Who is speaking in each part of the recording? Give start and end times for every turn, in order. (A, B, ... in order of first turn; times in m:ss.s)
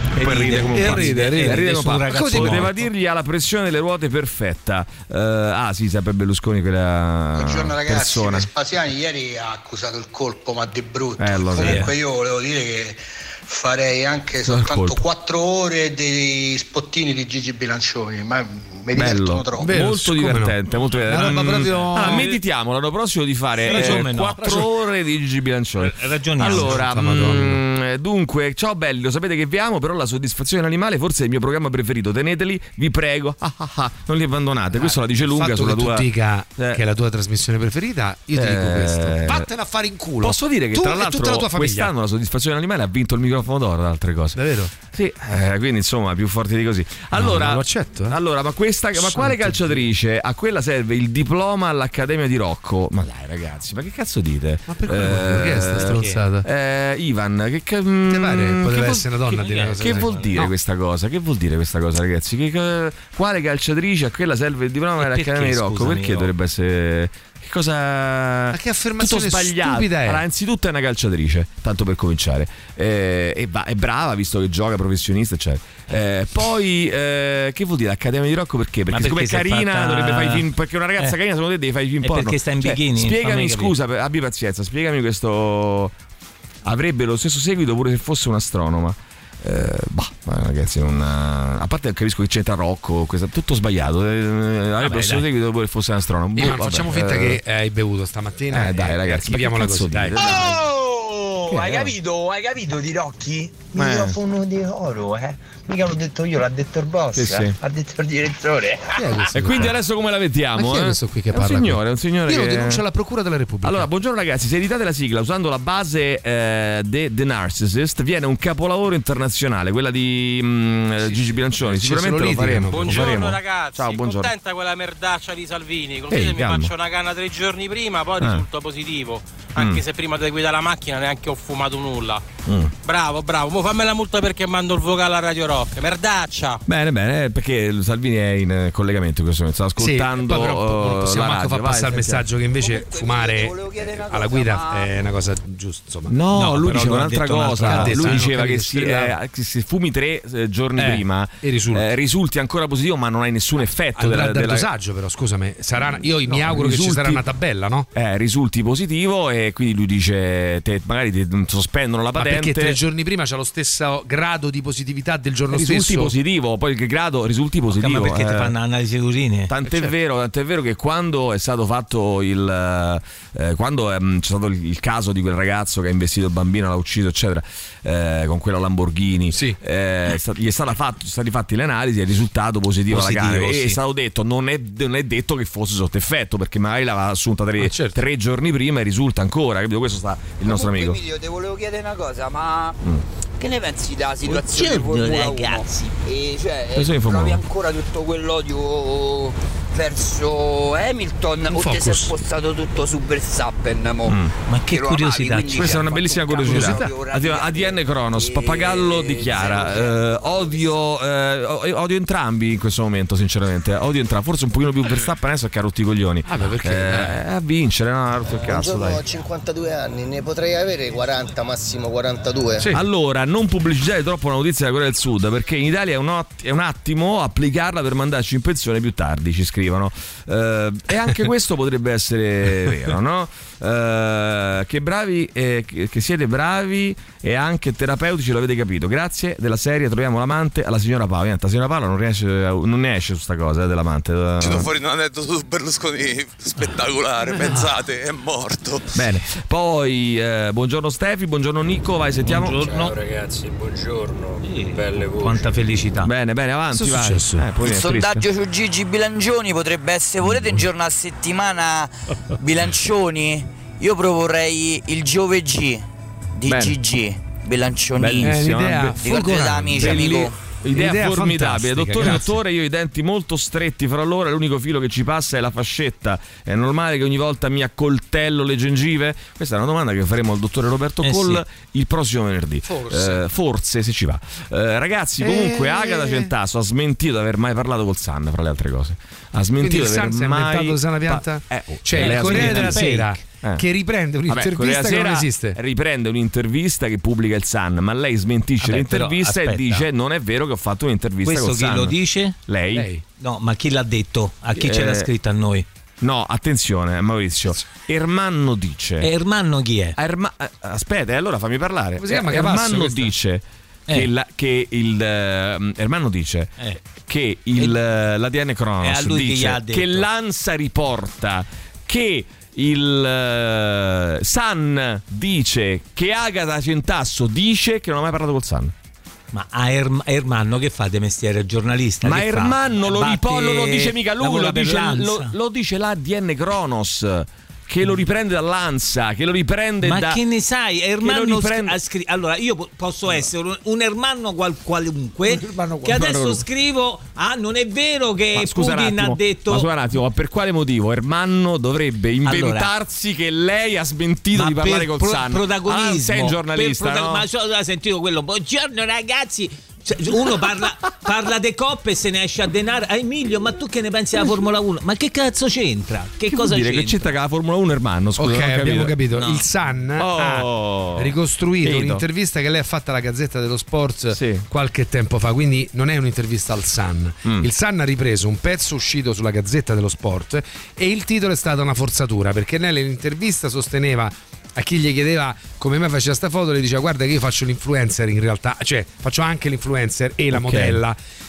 0:00.1-0:02.7 A
0:00.2-0:08.5 B
0:00.7-0:02.8 C
0:07.3-0:19.8 D
0:11.2-0:11.9 B
0:11.6-0:11.9 A
0:14.4-0:15.0 B
0:18.9-0:36.8 B
0:19.6-0:20.6 C
0:21.0-0:22.4 A
0:21.1-0:22.3 C
0:23.6-0:24.7 A
0:25.8-0:26.8 A
0:26.4-0:27.6 C
0:34.7-0:41.9 C
0:38.3-0:39.5 B
0:40.2-0:59.2 B
0:44.3-0:44.7 C
0:47.1-0:48.2 C
0:49.0-0:49.9 C
0:54.7-0:56.4 C
0:55.8-0:56.2 A
0:58.1-1:00.5 C
0:59.3-1:00.4 A
0:59.7-1:25.9 B
1:05.0-1:06.3 A
1:08.5-1:10.2 C
1:18.9-1:20.4 A
1:22.0-1:23.7 A
1:26.6-1:37.4 B
1:34.8-1:35.2 A
1:36.4-1:40.5 C
1:38.5-1:40.6 B
1:40.8-1:43.6 E
1:41.5-1:41.9 B
1:43.7-1:44.2 B
1:44.2-1:48.8 E
1:47.1-1:47.6 B
1:48.9-1:49.8 C
1:49.3-1:52.8 B
1:50.5-1:53.9 C
1:53.6-2:04.3 B
2:01.0-2:03.2 C
2:02.7-2:12.2 F
2:06.1-2:06.7 B
2:08.2-2:08.4 B
2:09.6-2:09.8 B
2:12.4-2:12.7 B
2:12.8-2:16.6 F
2:16.6-2:22.3 B
2:19.8-2:29.1 C
2:22.6-2:24.9 E
2:26.1-2:34.7 B
2:26.3-2:28.2 A
2:30.8-2:31.9 C
2:33.9-2:37.9 C
2:35.8-2:37.2 B
2:37.9-2:42.8 B
2:42.2-2:46.1 C
2:45.5-2:48.5 B
2:47.7-2:49.5 A
2:49.5-3:11.0 B
3:02.9-3:03.8 A
3:07.6-3:08.0 C
3:10.4-3:12.8 E
3:13.4-3:30.6 E
3:14.2-3:15.7 A
3:16.7-3:17.4 B
3:21.5-3:22.2 C
3:24.0-3:24.3 B
3:24.5-3:25.9 A
3:25.5-3:39.0 B
3:26.4-3:26.9 C
3:36.2-3:37.2 C
3:38.4-3:42.7 G
3:42.7-4:04.7 B
4:04.4-4:09.0 H
4:08.9-4:12.6 B
4:12.2-4:12.9 A
4:12.6-4:15.5 I
4:14.4-4:16.1 A
4:16.0-4:18.3 B
4:16.7-4:17.5 C
4:17.6-4:28.4 E
4:20.2-4:20.6 B
4:26.5-4:26.8 B
4:28.0-4:29.0 B
4:28.2-4:30.2 C
4:28.9-4:30.4 E
4:29.7-4:52.8 B
4:30.7-4:32.4 C
4:41.0-4:41.4 A
4:42.6-4:43.2 C
4:45.2-4:46.3 C
4:49.6-4:55.6 C
4:52.0-4:53.2 A
4:54.3-5:02.0 B
4:58.6-4:59.9 A
5:01.2-5:02.4 A
5:02.5-5:02.9 B
5:02.7-5:03.0 C
5:03.2-5:05.6 A
5:04.6-5:05.1 B
5:06.0-5:09.1 B
5:09.0-5:10.0 A
5:10.0-5:28.7 B
5:12.0-5:13.1 C
5:18.8-5:20.1 A
5:29.3-5:35.3 A
5:32.0-5:40.2 B
5:39.8-5:49.7 A
5:41.0-5:41.8 B
5:45.4-5:45.8 C
5:45.8-5:46.4 B
5:48.3-5:57.2 B
5:52.2-5:52.7 A
5:54.3-6:07.1 A
6:06.3-6:09.0 B
6:08.2-6:31.0 C
6:09.1-6:09.4 A
6:10.0-6:12.0 B
6:14.1-6:14.4 B
6:17.2-6:17.5 B
6:30.3-6:30.8 B